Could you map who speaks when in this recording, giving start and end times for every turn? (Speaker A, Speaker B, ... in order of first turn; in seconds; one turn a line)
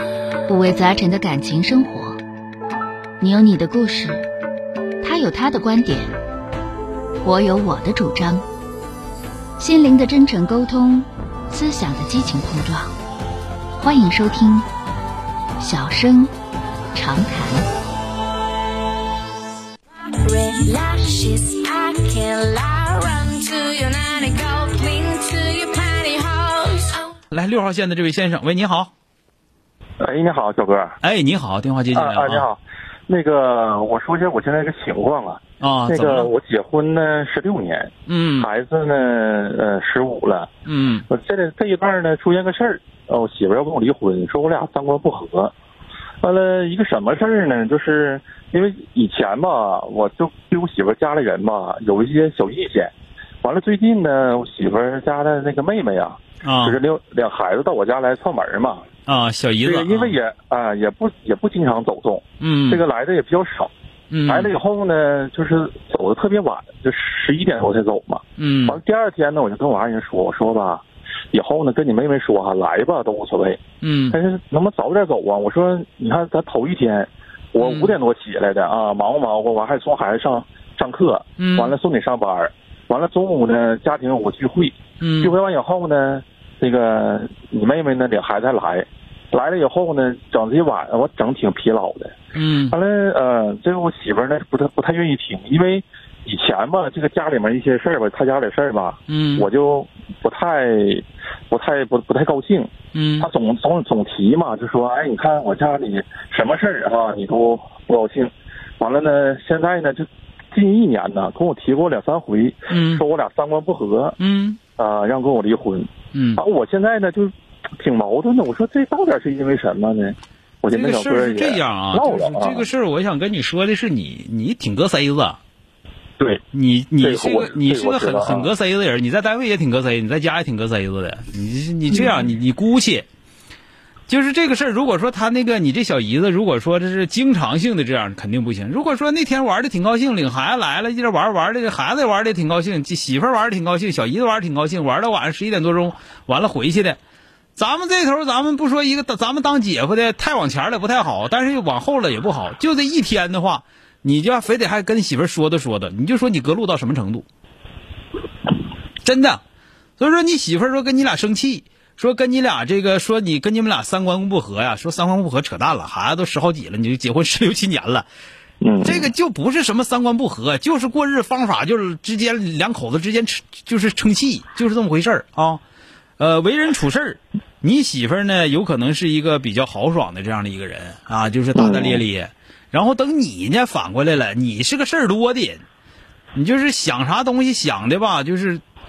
Speaker A: 0.5-2.2
Speaker A: 3.2-4.2
Speaker A: 5.0-6.1
Speaker A: 7.2-8.4
Speaker A: 9.6-12.9
Speaker A: 13.8-14.6
Speaker A: 15.6-16.3
Speaker A: 16.9-17.6
Speaker B: 20.2-27.1
Speaker A: 20.4-20.7
Speaker C: 27.3-28.9
Speaker D: 30.0-31.0
Speaker C: 31.0-32.4
Speaker D: 31.9-40.5
Speaker C: 35.6-36.3
Speaker C: 38.1-38.5
Speaker C: 40.6-41.0
Speaker D: 41.1-45.5
Speaker D: 46.2-58.8
Speaker C: 56.4-56.8
Speaker C: 59.1-60.1
Speaker D: 59.6-63.7
Speaker C: 62.4-62.8
Speaker C: 64.1-64.5
Speaker D: 64.2-92.1
Speaker C: 68.4-68.8
Speaker C: 73.8-74.2
Speaker C: 77.6-77.9
Speaker C: 81.4-81.7
Speaker C: 85.0-85.3
Speaker C: 92.3-92.7
Speaker D: 92.7-114.2
Speaker C: 99.1-99.5
Speaker C: 102.9-103.3
Speaker C: 112.7-113.0
Speaker C: 114.2-114.6
Speaker D: 114.8-122.7
Speaker C: 116.1-116.4
Speaker C: 120.7-125.4
Speaker C: 126.5-133.1
Speaker D: 127.0-128.5
Speaker D: 131.9-132.2
Speaker C: 134.1-147.0
Speaker C: 147.6-157.2
Speaker C: 159.0-159.4
Speaker C: 160.0-168.1
Speaker D: 168.6-169.1
Speaker C: 168.8-175.6
Speaker C: 176.2-185.6
Speaker D: 181.5-182.0
Speaker C: 186.3-188.6